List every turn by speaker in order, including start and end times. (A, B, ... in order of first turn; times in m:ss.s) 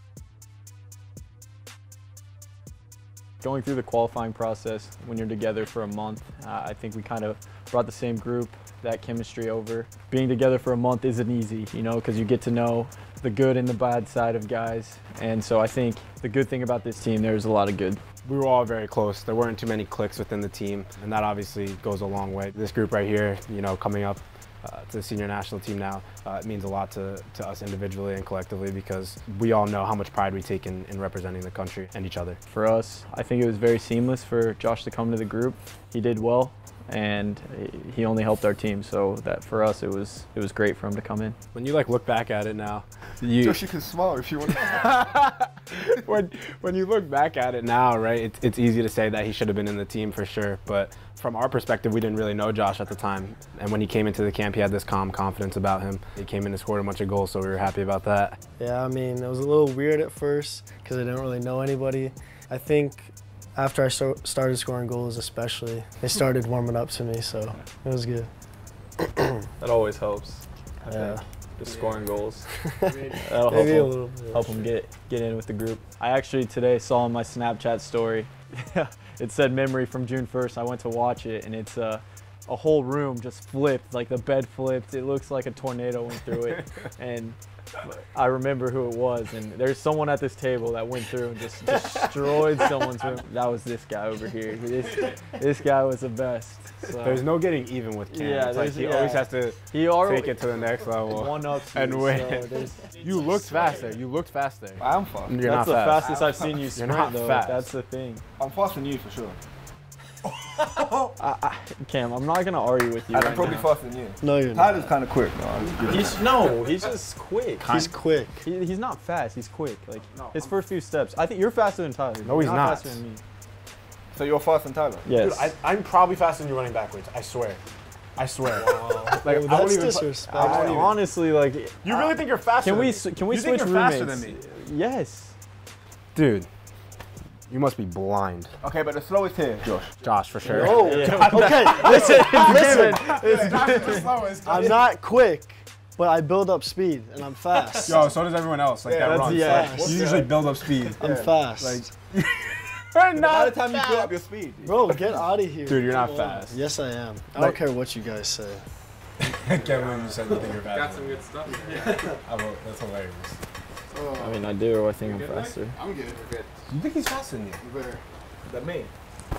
0:03.4-0:18.0 A
0:18.2-0:32.4 B
0:32.5-0:41.4 A
0:41.5-0:43.6 B
0:43.4-0:44.8 C
0:44.6-0:58.4 B
0:58.6-1:08.3 D
1:09.6-1:12.5 A
1:10.9-1:11.2 D
1:12.7-1:14.5 D
1:13.2-1:37.2 A
1:37.0-1:47.7 B
1:38.1-1:42.8 A
1:44.8-1:45.4 C
1:45.4-1:48.2 A
1:46.0-1:46.6 C
1:48.4-1:49.4 C
1:50.6-1:50.9 C
1:51.2-1:53.7 A
1:53.1-1:56.3 C
1:54.2-1:54.9 D
1:55.8-1:57.7 A
1:57.6-1:57.9 B
1:57.7-1:58.4 D
1:58.4-2:03.2 A
2:02.2-2:03.0 B
2:04.1-2:05.0 C
2:05.0-2:05.5 A
2:05.2-2:07.6 B
2:08.2-2:11.0 B
2:09.0-2:10.9 D
2:10.3-2:12.0 A
2:11.8-2:14.4 B
2:12.6-2:15.3 A
2:16.1-2:16.5 B
2:17.5-2:18.6 B
2:18.6-2:19.9 C
2:19.8-2:24.8 B
2:20.4-2:21.2 C
2:20.4-2:28.2 D
2:20.5-2:24.2 A
2:27.5-2:27.9 A
2:27.8-2:31.0 B
2:28.8-2:31.8 C
2:29.0-2:30.0 A
2:29.3-2:30.0 D
2:31.0-2:31.9 D
2:32.1-2:34.1 B
2:33.1-2:35.1 C
2:34.6-2:38.6 D
2:35.6-2:36.6 B
2:39.2-2:41.4 B
2:40.6-2:42.1 E
2:41.5-2:41.9 C
2:42.1-2:43.4 B
2:44.2-2:45.8 A
2:45.1-2:45.6 E
2:46.7-2:47.6 B
2:48.4-2:48.9 C